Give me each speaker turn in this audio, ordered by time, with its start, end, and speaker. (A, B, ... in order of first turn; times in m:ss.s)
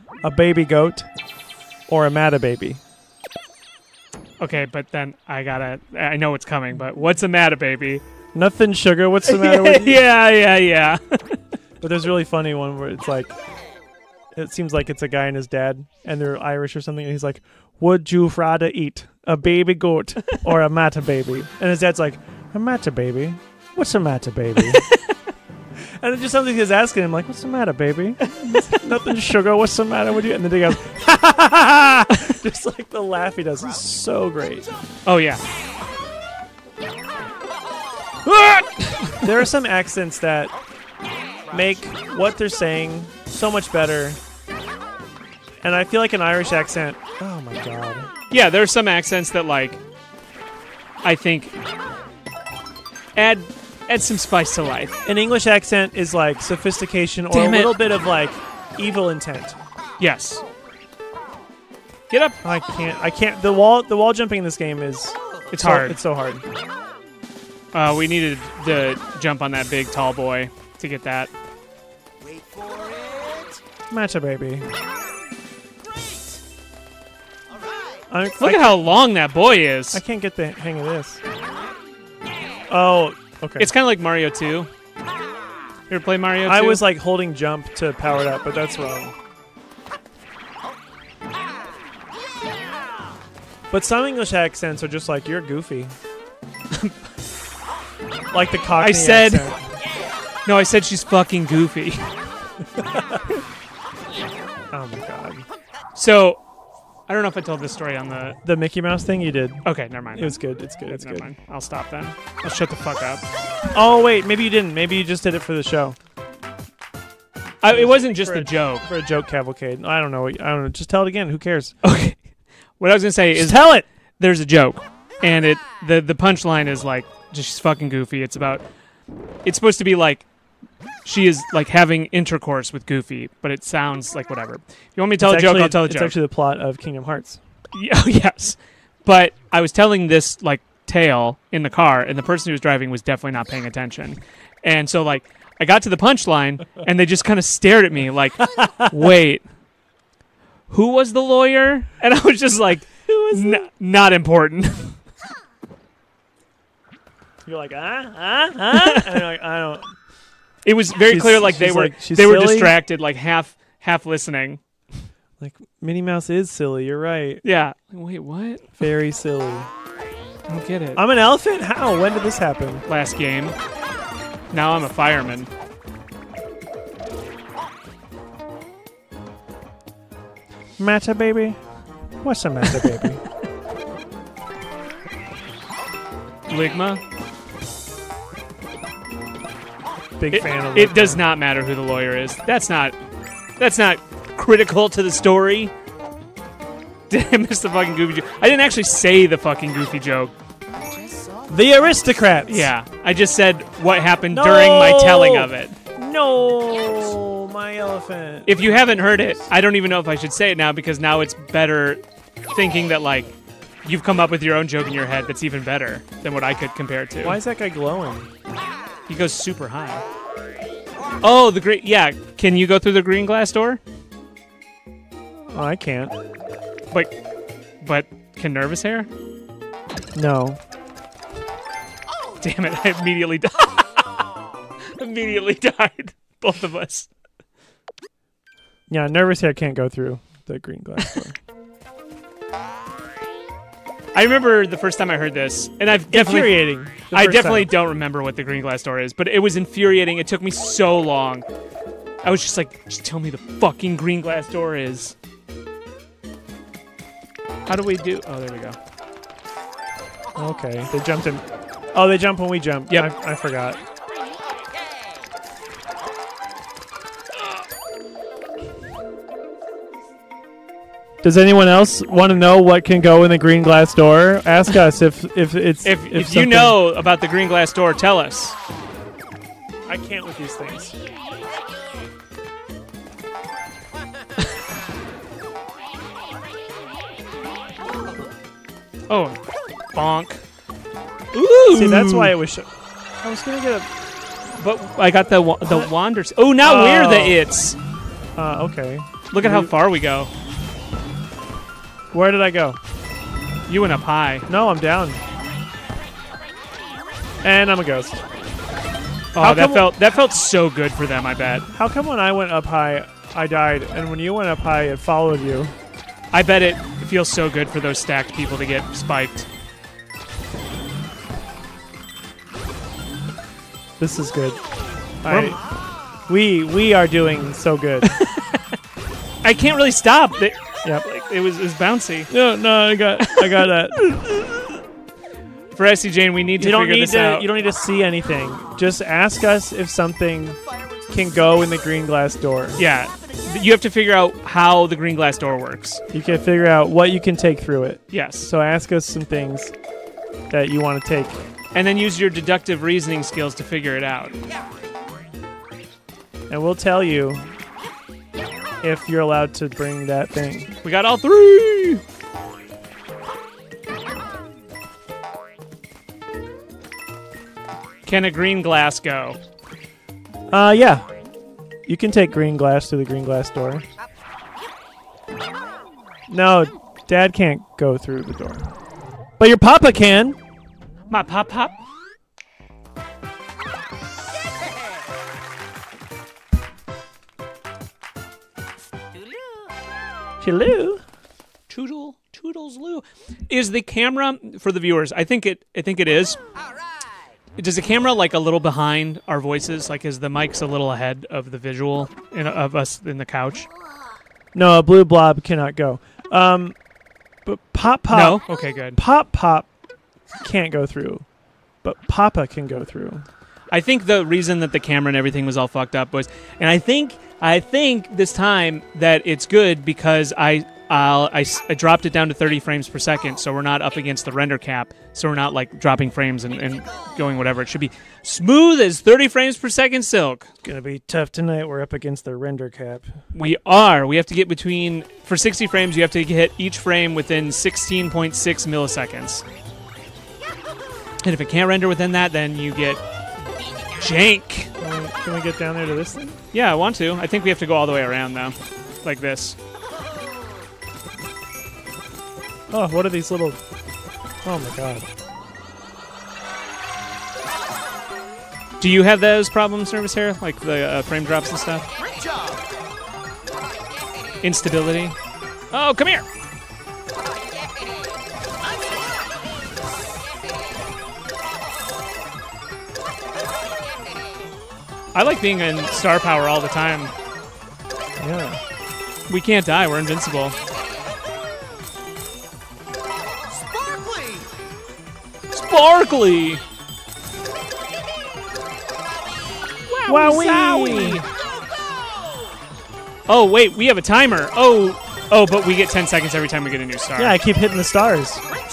0:00.2-0:01.1 A
0:01.9-0:02.8 A
0:04.4-0:08.0 B
0:08.3-0:10.0 A
0:09.3-0:11.4 B
0:11.8-0:13.4 A
0:14.3-0:24.9 A
0:24.8-0:25.2 B
0:25.8-0:34.7 A
0:28.3-0:28.8 B
0:35.1-0:35.4 B
0:38.3-0:39.3 B
0:39.2-0:40.6 A
0:41.5-0:44.2 A
0:45.6-0:48.1 A
0:48.3-0:49.8 B
0:51.0-0:51.5 B
0:53.2-0:55.0 B
0:55.1-0:59.6 A
0:57.3-0:57.7 B
1:00.0-1:00.5 B
1:02.1-1:02.4 B
1:02.4-1:06.4 A
1:05.5-1:06.0 B
1:07.7-1:11.3 B
1:13.9-1:14.7 A
1:18.1-1:18.8 A
1:18.4-1:20.0 B
1:19.9-1:21.2 A
1:22.7-1:23.7 A
1:23.6-1:24.7 B
1:25.9-1:26.8 B
1:26.4-1:29.2 A
1:33.7-1:36.0 A
1:38.3-1:39.6 A
1:38.8-1:39.6 B
1:40.5-1:42.1 B
1:42.8-1:43.2 A
1:44.7-1:45.5 A
1:46.0-1:46.4 B
1:47.1-1:48.4 B
1:48.4-1:51.3 A
1:49.6-1:53.2 B
1:53.7-1:56.0 A
1:57.6-1:58.9 B
1:57.7-2:01.8 A
2:01.8-2:02.3 B
2:02.8-2:08.6 B
2:03.3-2:03.9 A
2:09.4-2:10.3 B
2:11.0-2:16.1 B
2:15.2-2:17.4 A
2:17.7-2:29.4 B
2:28.6-2:28.9 A
2:30.7-2:35.0 B
2:33.1-2:33.7 A
2:37.5-2:40.0 A
2:38.7-2:39.1 B
2:40.6-2:44.6 B
2:41.1-2:42.8 A
2:45.4-2:47.4 A
2:47.4-2:48.7 B
2:48.8-2:49.7 A
2:50.5-2:51.0 B
2:51.0-2:52.8 A
2:52.9-2:53.6 B
2:54.5-2:55.5 B
3:00.8-3:01.6 A
3:02.2-3:03.2 A
3:06.5-3:07.0 B
3:10.2-3:11.2 A
3:10.3-3:13.0 B
3:13.6-3:15.7 B
3:17.1-3:20.3 B
3:21.5-3:22.7 A
3:22.5-3:25.8 B
3:24.3-3:29.3 A
3:28.5-3:32.0 B
3:32.5-3:33.3 B
3:33.8-3:37.4 B
3:37.2-3:38.3 A
3:39.1-3:40.0 B
3:41.2-3:43.8 B
3:45.5-3:46.2 A
3:47.8-3:49.1 B
3:50.2-3:50.6 A
3:52.4-3:54.1 B
3:54.9-3:57.1 B
3:58.9-4:01.4 A
4:04.1-4:06.6 B
4:06.1-4:07.7 A
4:07.1-4:11.4 B
4:12.2-4:15.2 B
4:17.7-4:18.8 B
4:20.4-4:23.8 A
4:31.2-4:36.8 A
4:35.8-4:38.6 B
4:39.9-4:41.0 A
4:49.1-4:49.4 B
4:49.9-4:50.4 B
4:51.3-4:52.3 B
4:51.7-4:52.7 A
4:53.2-4:53.9 A
4:54.6-4:57.8 B
4:55.6-4:55.9 A
4:56.6-4:57.4 A
4:58.4-4:59.7 A
4:59.3-5:00.3 B
5:02.1-5:02.8 A
5:03.7-5:04.5 B
5:04.5-5:05.2 A
5:07.4-5:08.2 A
5:09.4-5:11.7 B
5:09.4-5:09.9 A
5:11.7-5:15.7 A
5:16.3-5:19.5 B
5:24.0-5:24.7 A
5:25.2-5:25.6 A
5:25.3-5:25.6 B
5:26.3-5:28.1 A
5:28.1-5:28.6 B
5:29.4-5:32.3 B
5:32.3-5:34.1 A
5:34.0-5:34.8 B
5:35.7-5:37.5 B
5:36.6-5:42.8 A
5:42.8-5:46.0 B
5:46.1-5:49.7 A
5:48.1-5:48.5 B
5:50.5-5:51.4 A
5:51.7-5:54.4 B
5:56.5-5:57.5 A
5:58.8-6:00.7 A
6:00.8-6:02.0 B
6:08.1-6:09.4 B
6:10.5-6:11.0 A
6:11.9-6:13.8 A
6:16.3-6:18.7 A
6:19.4-6:20.4 A
6:21.1-6:21.8 B
6:30.4-6:31.0 A
6:31.7-6:36.4 B
6:37.6-6:43.7 B
6:44.5-6:46.8 A
6:47.4-6:48.4 A
6:48.1-6:49.0 B
6:49.0-6:49.7 A
6:50.4-6:51.3 A
6:51.8-6:53.3 A
6:53.7-7:10.5 B
7:10.6-7:13.2 A
7:13.3-7:19.4 B
7:21.2-7:23.0 B
7:24.0-7:24.7 B
7:24.8-7:26.4 A
7:26.5-7:29.6 B
7:32.7-7:33.6 A
7:34.4-7:35.1 A
7:38.8-7:41.9 B
7:44.4-7:45.2 B
7:45.7-7:46.3 B
7:55.1-7:57.1 B
7:58.2-7:58.6 A
7:59.3-8:00.6 B
8:05.5-8:06.6 B
8:09.8-8:11.3 B
8:10.1-8:11.3 A
8:13.3-8:17.4 B
8:17.2-8:18.5 A